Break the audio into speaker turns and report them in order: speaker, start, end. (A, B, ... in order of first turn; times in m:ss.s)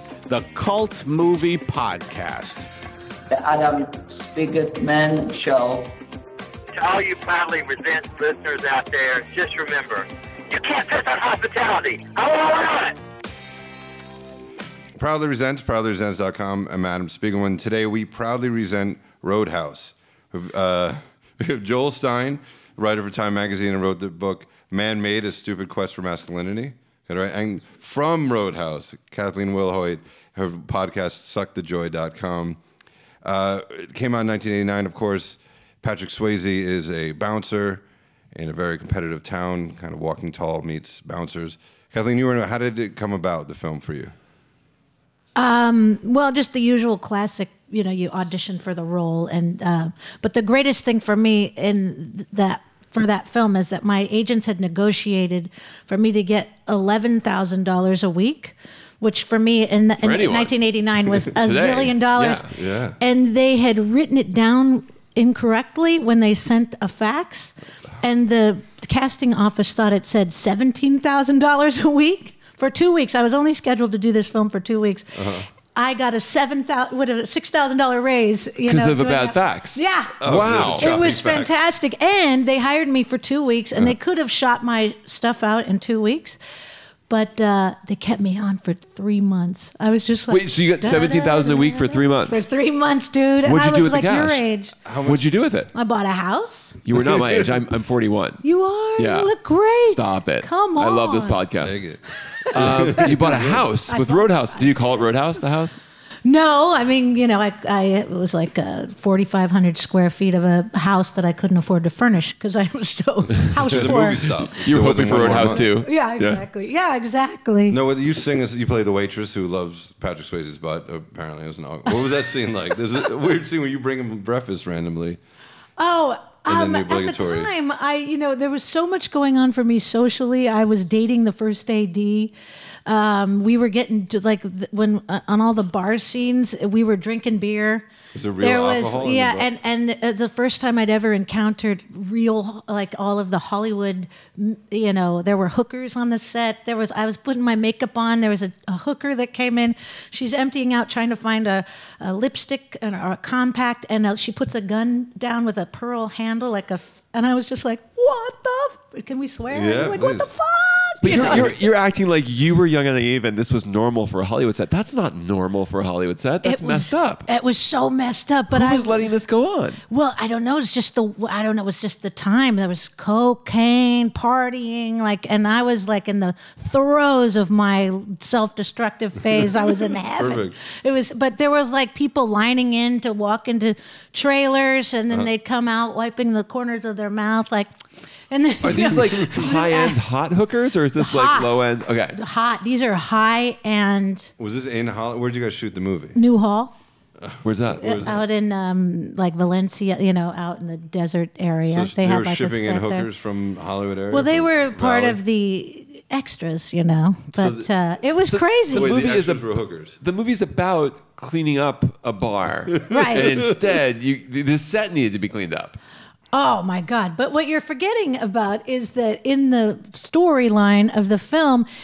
0:00.3-0:02.7 A
0:03.3-0:05.9 B
0:06.7-0:13.0 C
0:15.0-0:32.6 D
0:33.2-0:37.8 D
0:38.3-0:44.1 D
0:45.4-1:02.4 E
1:00.0-1:00.6 F
1:01.2-1:02.5 F
1:02.5-1:03.0 D
1:03.0-1:26.4 E
1:15.2-1:15.4 D
1:18.7-1:20.9 F
1:20.2-1:21.5 D
1:27.1-1:34.7 E
1:30.3-1:32.5 F
1:33.4-1:34.4 F
1:34.8-1:35.3 D
1:35.1-1:35.7 F
1:35.7-1:36.8 E
1:36.8-1:38.4 F
1:37.0-1:37.5 D
1:38.4-1:41.4 E
1:39.0-1:39.3 F
1:39.8-1:41.8 F
1:41.6-1:43.6 D
1:42.1-1:44.8 E
1:42.5-1:45.8 F
1:46.2-1:54.5 E
1:53.6-1:55.7 D
1:54.6-1:56.4 F
1:55.2-1:57.8 E
1:57.7-2:05.2 D
2:05.8-2:12.3 E
2:06.5-2:07.5 D
2:12.9-2:17.9 E
2:18.1-2:19.5 D
2:18.4-2:41.7 E
2:39.5-2:40.3 D
2:41.0-2:47.3 F
2:41.1-2:41.5 D
2:46.4-2:49.2 E
2:48.5-2:49.8 F
2:49.9-3:07.7 E
3:00.2-3:00.6 D
3:08.3-3:10.0 E
3:08.6-3:12.2 F
3:11.0-3:14.3 E
3:14.4-3:16.2 D
3:16.1-3:16.7 E
3:17.2-3:18.2 D
3:17.4-3:18.2 F
3:17.8-3:23.1 E
3:21.6-3:25.2 D
3:24.1-3:28.9 E
3:27.4-3:27.7 D
3:28.3-3:35.8 F
3:28.7-3:30.0 D
3:32.9-3:33.3 E
3:33.1-3:33.5 D
3:36.3-3:41.7 E